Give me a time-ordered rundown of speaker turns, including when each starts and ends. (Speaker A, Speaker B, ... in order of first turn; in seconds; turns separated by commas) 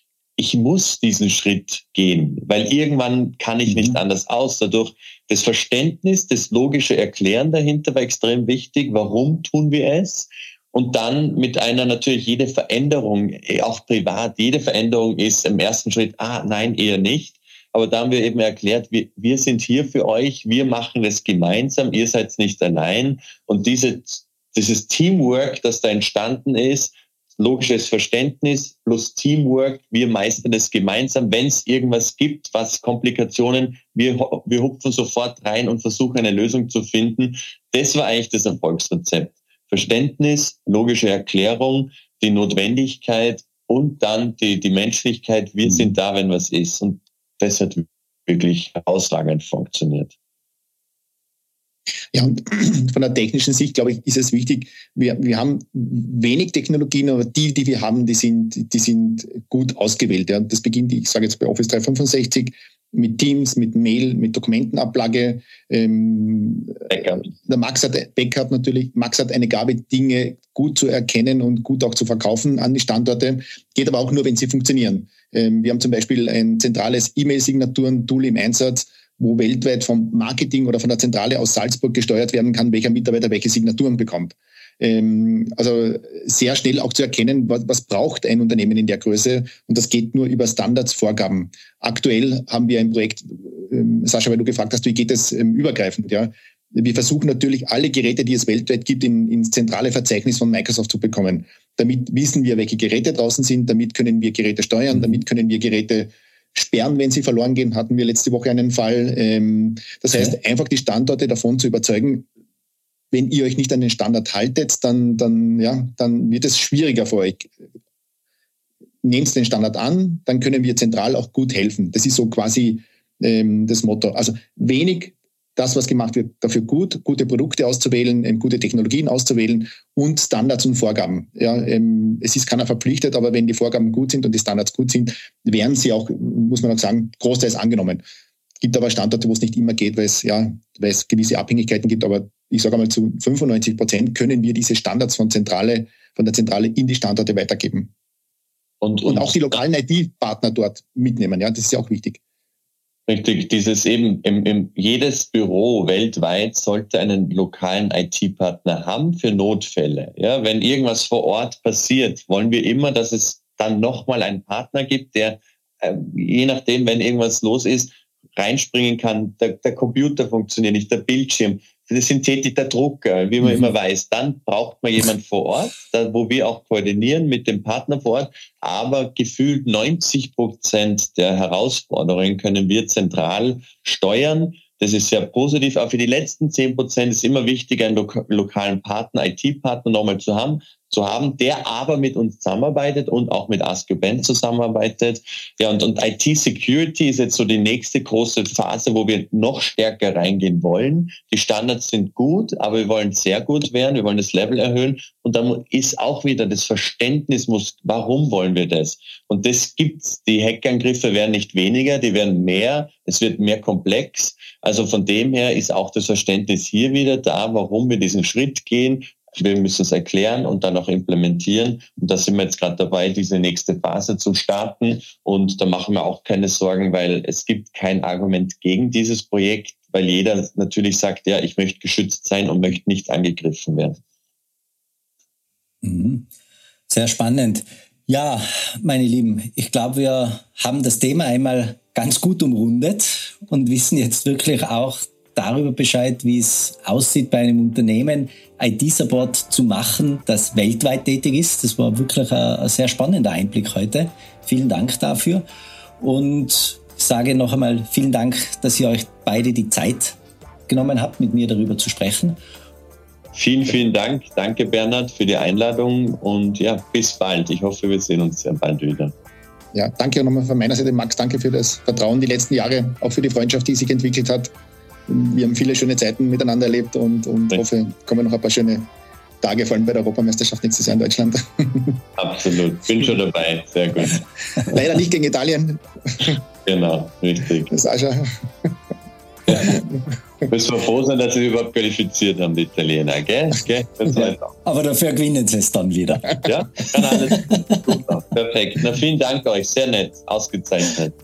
Speaker A: 0.4-50.1, Speaker B: 3.7-4.0, Speaker C: 52.1-112.3, Speaker A: 66.9-67.3, Speaker B: 104.9-105.2, Speaker C: 113.1-117.5, Speaker C: 119.0-138.0, Speaker C: 138.6-147.9, Speaker A: 148.8-149.6, Speaker C: 149.0-152.2, Speaker A: 153.1-234.0, Speaker B: 235.8-236.3, Speaker B: 236.9-255.4, Speaker B: 256.0-262.4, Speaker A: 263.3-269.1, Speaker C: 269.7-274.5, Speaker C: 275.1-278.9, Speaker C: 279.4-282.0, Speaker A: 282.2-284.2, Speaker C: 284.6-286.4, Speaker A: 286.6-287.7, Speaker C: 287.7-288.3, Speaker A: 289.4-289.8, Speaker C: 289.5-290.0, Speaker A: 290.5-294.5, Speaker B: 294.6-297.6, Speaker A: 296.4-301.1